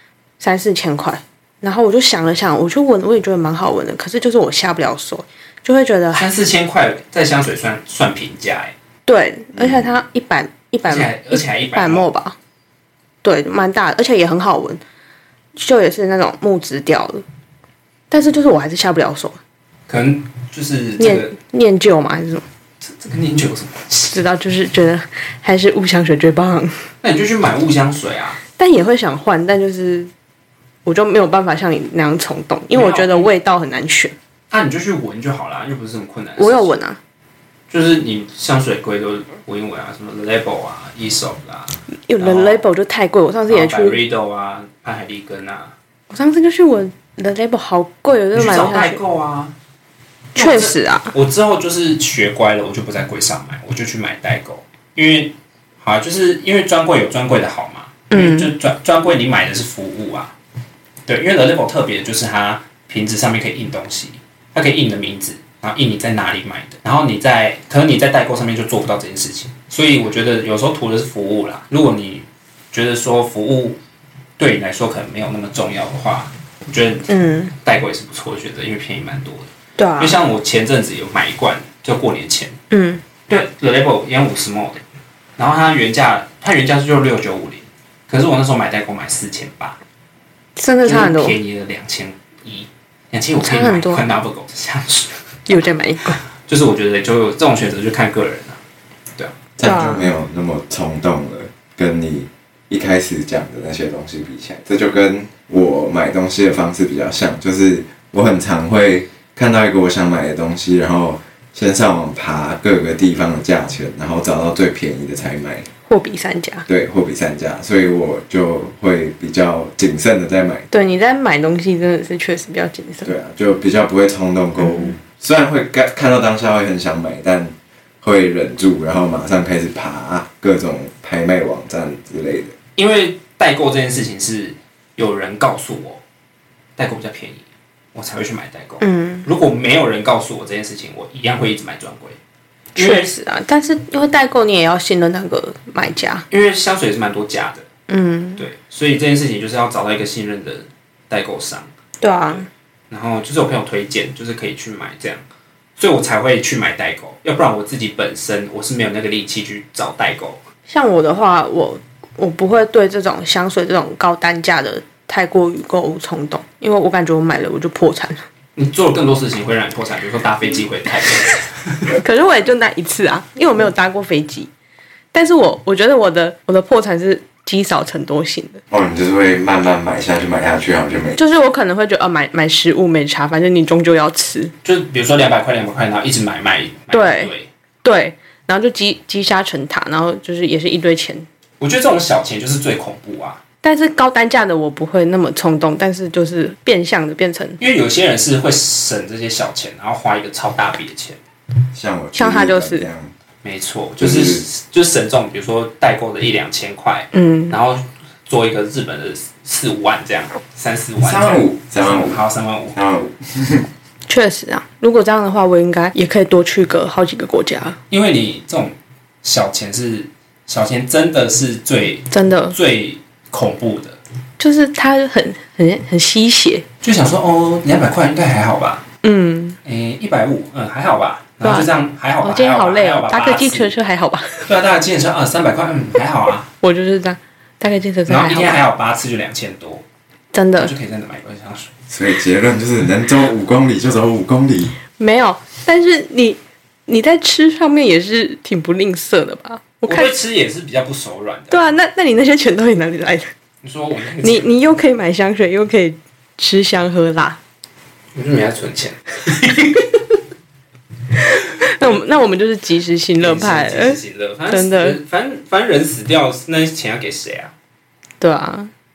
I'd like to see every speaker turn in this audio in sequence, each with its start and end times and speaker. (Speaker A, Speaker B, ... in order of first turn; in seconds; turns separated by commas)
Speaker A: 0.4-6.3, Speaker B: 6.2-8.7, Speaker A: 9.1-12.4, Speaker C: 9.5-9.9, Speaker B: 10.9-12.1, Speaker A: 13.2-14.8, Speaker A: 15.6-17.2, Speaker A: 18.1-19.4, Speaker B: 19.9-21.3, Speaker A: 21.0-22.4, Speaker B: 22.8-24.1, Speaker A: 24.1-26.9, Speaker B: 27.0-28.4, Speaker A: 28.6-30.1, Speaker A: 30.9-34.1, Speaker B: 32.7-33.3, Speaker B: 34.5-36.7, Speaker A: 36.4-37.0, Speaker B: 37.7-42.6, Speaker A: 42.1-44.0, Speaker B: 43.5-45.7, Speaker A: 46.1-49.0, Speaker B: 48.3-49.5, Speaker A: 50.4-51.1, Speaker B: 50.4-60.3, Speaker A: 58.1-58.5, Speaker B: 61.1-73.8, Speaker B: 74.4-82.5, Speaker A: 77.1-77.5, Speaker A: 79.8-80.2, Speaker A: 82.7-83.0, Speaker B: 83.3-84.8, Speaker B: 85.4-89.8, Speaker A: 90.5-91.4, Speaker B: 90.8-95.1, Speaker A: 93.4-94.0, Speaker A: 95.5-96.2, Speaker B: 96.4-98.6, Speaker C: 99.6-115.7, Speaker A: 99.6-100.1, Speaker A: 115.9-116.7, Speaker C: 116.7-120.7, Speaker A: 120.7-123.1, Speaker C: 123.0-132.5, Speaker B: 132.8-136.0, Speaker B: 136.8-142.2, Speaker A: 138.8-139.3, Speaker B: 142.7-143.1, Speaker A: 142.7-146.2, Speaker B: 146.3-147.6, Speaker A: 147.9-148.4, Speaker B: 148.4-151.7, Speaker A: 152.0-152.4, Speaker B: 152.3-155.2, Speaker B: 155.8-160.4, Speaker A: 160.7-168.2, Speaker B: 168.6-171.9, Speaker A: 171.9-174.5, Speaker A: 175.1-178.6, Speaker C: 178.7-181.2, Speaker A: 181.1-184.5, Speaker B: 184.6-187.5, Speaker A: 186.9-187.3, Speaker A: 187.8-191.2, Speaker B: 191.6-193.4, Speaker A: 193.6-197.6, Speaker B: 197.6-201.2, Speaker C: 201.7-203.1, Speaker A: 202.2-202.9, Speaker B: 203.4-212.8, Speaker C: 204.0-204.4, Speaker A: 207.1-207.6, Speaker C: 211.0-212.2, Speaker C: 212.7-213.7, Speaker A: 214.1-217.8, Speaker B: 217.9-224.0, Speaker A: 222.1-222.6, Speaker A: 224.4-226.7, Speaker B: 226.8-228.8, Speaker A: 229.0-229.6, Speaker B: 229.6-233.7, Speaker A: 231.4-231.7, Speaker A: 232.2-234.5, Speaker B: 234.4-236.5, Speaker A: 236.6-238.6, Speaker B: 238.1-239.8, Speaker A: 240.3-240.7, Speaker B: 240.6-241.7, Speaker C: 241.9-244.8, Speaker A: 245.0-250.1, Speaker B: 249.9-251.6, Speaker A: 251.5-253.3, Speaker B: 253.6-254.5, Speaker A: 254.2-257.4, Speaker B: 258.1-260.0, Speaker A: 261.3-265.0, Speaker B: 263.2-267.5, Speaker A: 268.2-268.7